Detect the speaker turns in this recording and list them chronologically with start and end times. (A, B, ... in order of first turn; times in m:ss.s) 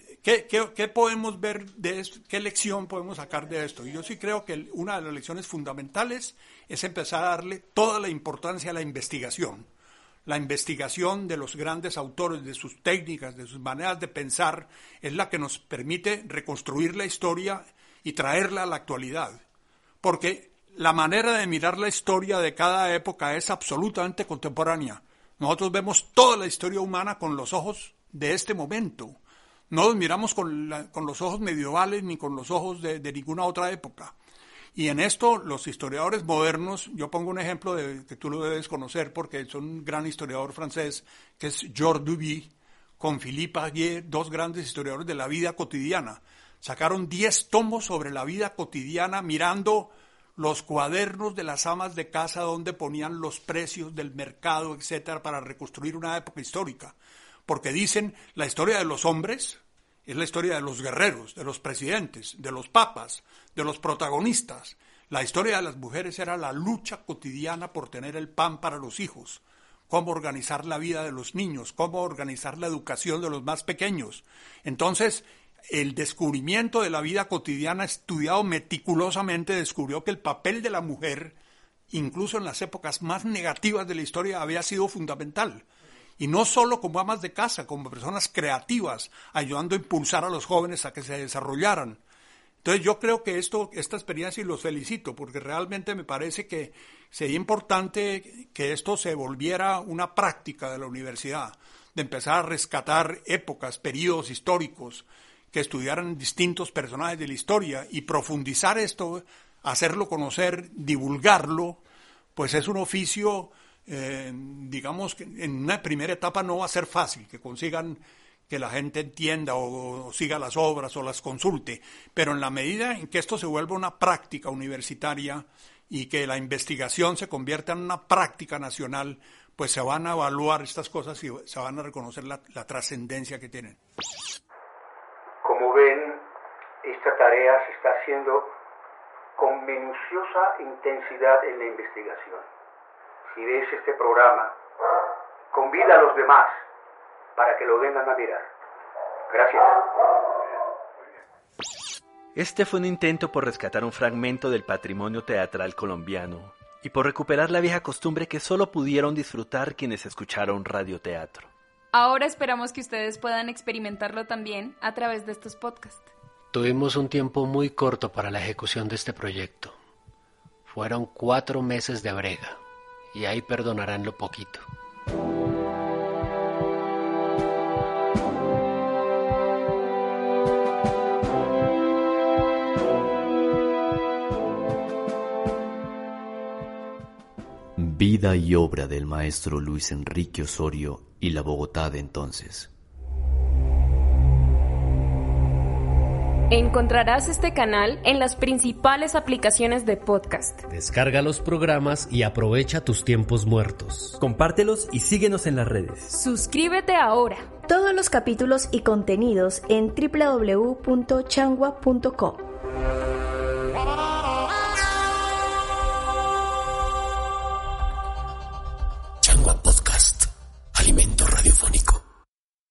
0:00.2-0:09.7 A
0:10.3-0:19.4 A
0:20.0-0:29.2 A
0:29.7-0:34.2 A
0:34.8-0:57.0 A
0:57.5-1:21.4 A
1:21.9-1:25.7 A
1:26.2-1:32.0 A
1:32.6-1:51.8 A
1:52.4-2:13.8 A
2:15.4-2:16.2 B
2:16.8-2:18.5 B
2:19.4-2:22.5 B
2:23.3-2:24.6 B
2:25.5-2:26.6 B
2:27.4-2:28.5 B
2:29.3-2:29.9 B
2:32.4-2:41.5 C
2:41.9-2:46.1 D
2:46.5-2:49.8 E
2:50.7-2:52.6 E
2:53.1-2:54.6 E
3:07.8-3:12.7 F
3:16.5-3:20.6 D
3:20.7-3:24.2 E
3:24.2-3:26.1 C
3:26.1-3:27.5 D
3:27.7-3:32.5 G